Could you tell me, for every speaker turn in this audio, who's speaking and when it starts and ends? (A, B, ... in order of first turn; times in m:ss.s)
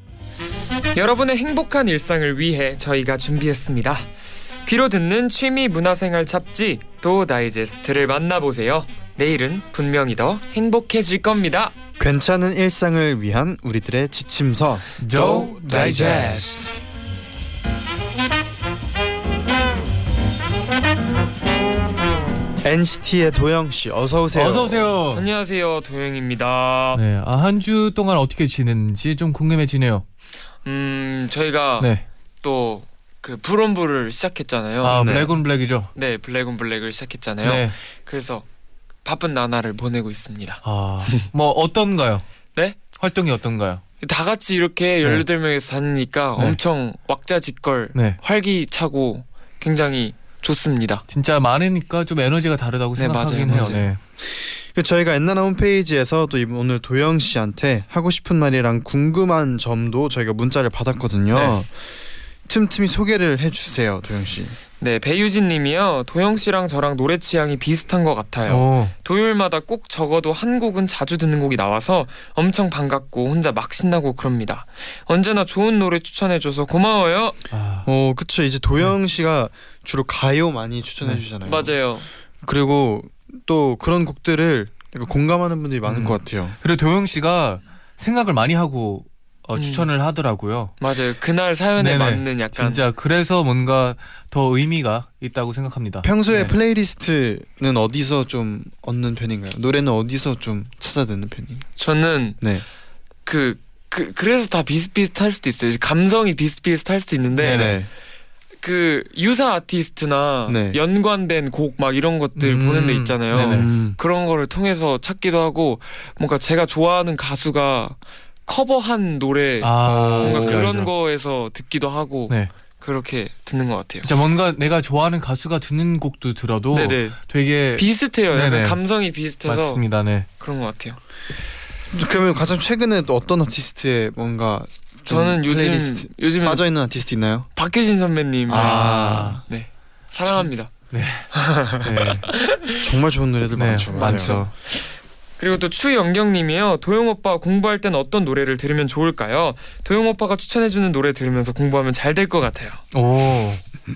0:00.9-0:04.1 A
0:04.6-0:11.7 A
0:12.0-0:16.4 B
0:15.0-0:16.6 C
0:15.2-0:16.4 A
0:22.6-0:24.9 B
0:24.3-0:25.2 C
0:25.1-0:27.0 A
0:26.9-0:30.0 C
0:30.6-0:31.9 A
0:31.8-0:32.0 C
0:32.4-0:35.1 A
0:34.8-0:35.9 C
0:34.9-0:35.3 B
0:35.9-0:38.4 A
0:37.4-0:37.7 C
0:39.0-0:41.2 A
0:40.6-0:42.2 C
0:42.9-0:43.8 C
0:44.0-0:51.0 A
0:51.1-0:54.0 C
0:53.0-0:53.9 A
0:54.2-1:04.6 B
1:01.3-1:01.6 A
1:04.8-1:17.4 A
1:08.5-1:08.9 C
1:17.5-1:17.9 C
1:17.8-1:21.8 B
1:21.4-1:22.1 A
1:22.4-1:26.6 B
1:25.8-1:30.8 C
1:29.5-1:29.9 A
1:30.8-1:32.8 A
1:31.8-1:36.5 C
1:36.0-1:41.7 B
1:41.8-1:42.4 A
1:42.4-1:42.6 B
1:43.2-1:47.7 A
1:47.4-1:47.8 C
1:47.4-1:47.9 B
1:48.6-2:04.1 A
1:50.5-1:50.8 B
1:52.4-1:53.7 C
1:53.3-1:54.0 B
1:59.6-2:00.9 C
1:59.9-2:00.7 B
2:04.0-2:08.8 C
2:06.7-2:07.2 A
2:07.7-2:09.8 A
2:09.4-2:10.3 C
2:10.4-2:11.0 A
2:11.9-2:17.5 B
2:15.1-2:16.6 A
2:17.5-2:20.8 A
2:18.5-2:19.4 C
2:18.5-2:19.4 B
2:20.9-2:22.3 C
2:21.3-2:22.8 A
2:22.8-2:24.4 B
2:23.5-2:24.5 C
2:23.9-2:32.8 A
2:32.9-2:33.6 C